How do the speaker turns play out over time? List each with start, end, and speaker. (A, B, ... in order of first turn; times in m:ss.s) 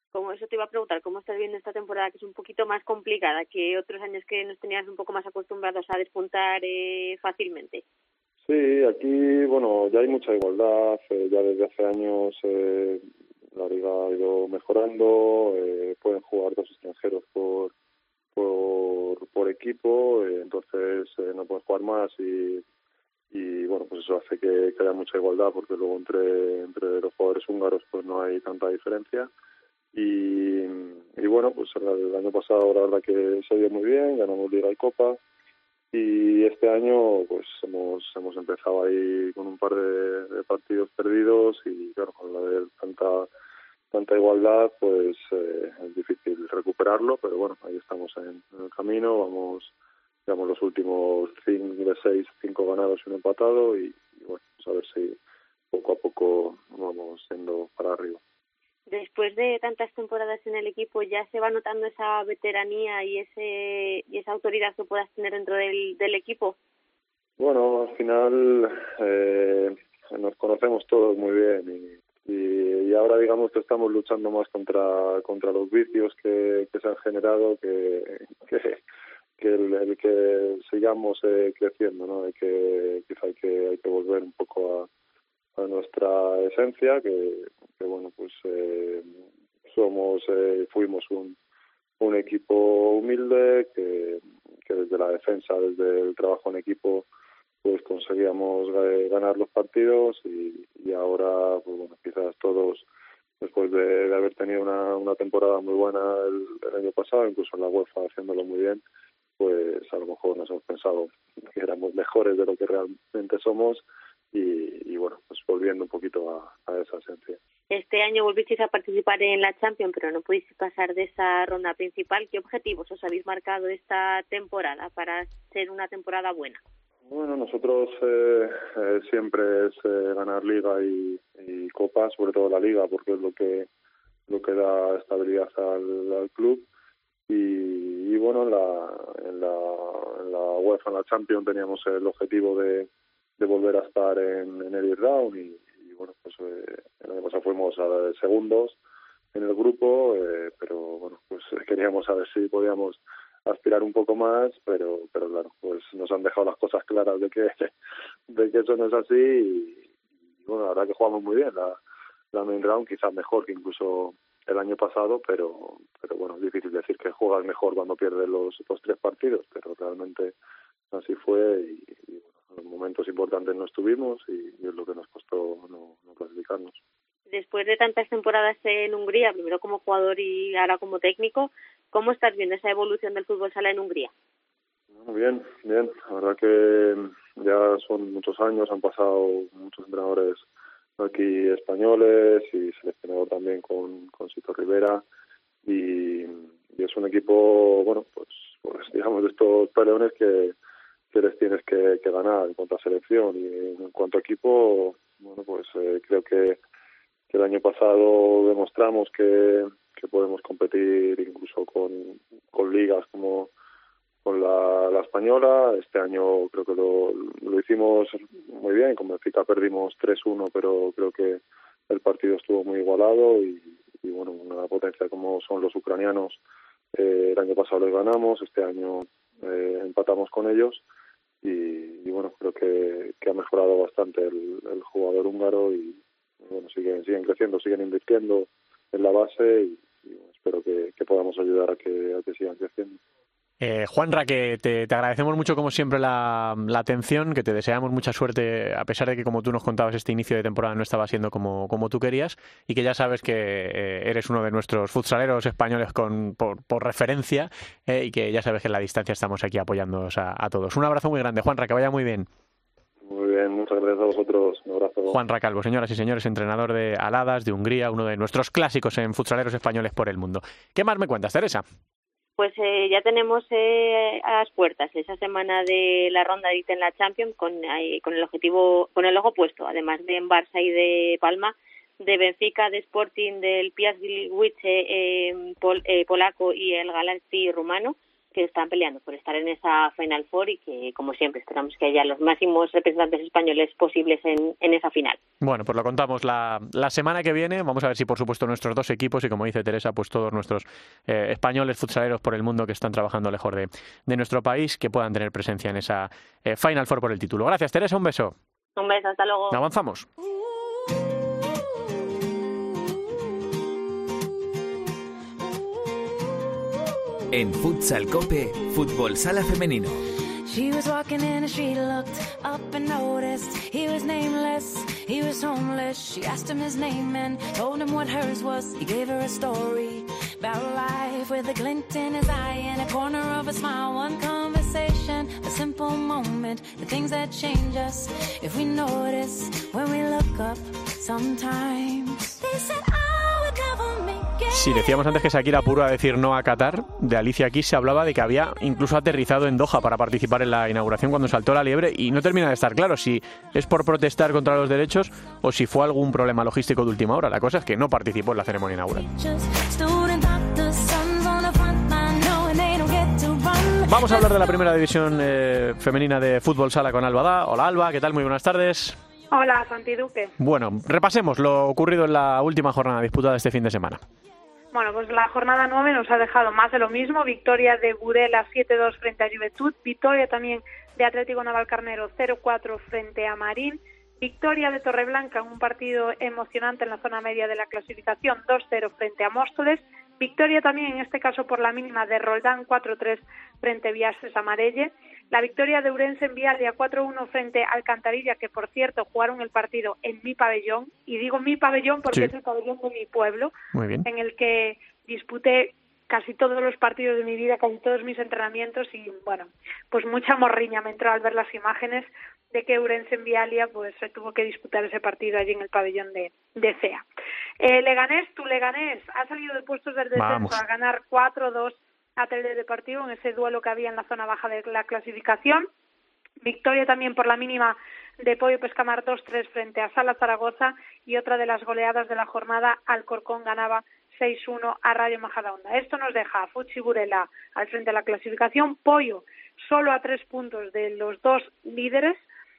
0:00.1-0:07.8 A
0:08.4-0:17.7 B
0:18.3-0:22.6 B
0:23.3-0:29.3 B
0:29.9-0:35.2 B
0:35.9-0:43.3 B
0:43.9-0:49.7 B
0:50.2-0:55.2 B
0:55.7-0:58.2 B
0:58.9-1:06.6 A
1:07.4-1:18.8 B
1:19.4-1:24.9 B
1:25.5-1:31.4 B
1:32.0-1:37.1 B
1:37.6-1:42.8 B
1:43.4-1:48.8 B
1:49.4-1:57.4 B
1:57.7-2:06.6 A
2:07.1-2:13.7 B
2:14.3-2:16.7 B
2:17.3-2:28.8 B
2:29.3-2:37.7 B
2:38.3-2:39.8 B
2:40.4-2:41.8 B
2:42.3-2:50.3 B
2:50.9-2:56.8 B
2:57.3-3:04.1 A
3:04.9-3:10.4 B
3:11.0-3:15.0 B
3:15.6-3:20.5 B
3:21.1-3:26.6 B
3:27.3-3:33.5 B
3:34.2-3:46.4 B
3:46.9-3:50.8 B
3:51.4-4:03.0 B
4:03.6-4:22.3 C
4:23.0-4:25.2 B
4:25.1-4:31.6 C
4:32.4-4:55.2 A
4:55.4-5:08.3 C
5:08.8-5:09.6 A
5:09.5-5:10.1 C
5:17.3-5:20.0 D
5:20.5-5:44.9 E
5:44.5-5:59.1 C
5:59.1-6:04.4 E
6:03.9-6:09.0 C
6:09.3-6:10.3 F
6:10.4-6:14.0 C
6:14.7-6:57.0 F
6:43.7-6:44.1 C
6:57.6-7:05.7 F
7:00.2-7:00.6 C
7:06.4-7:22.2 F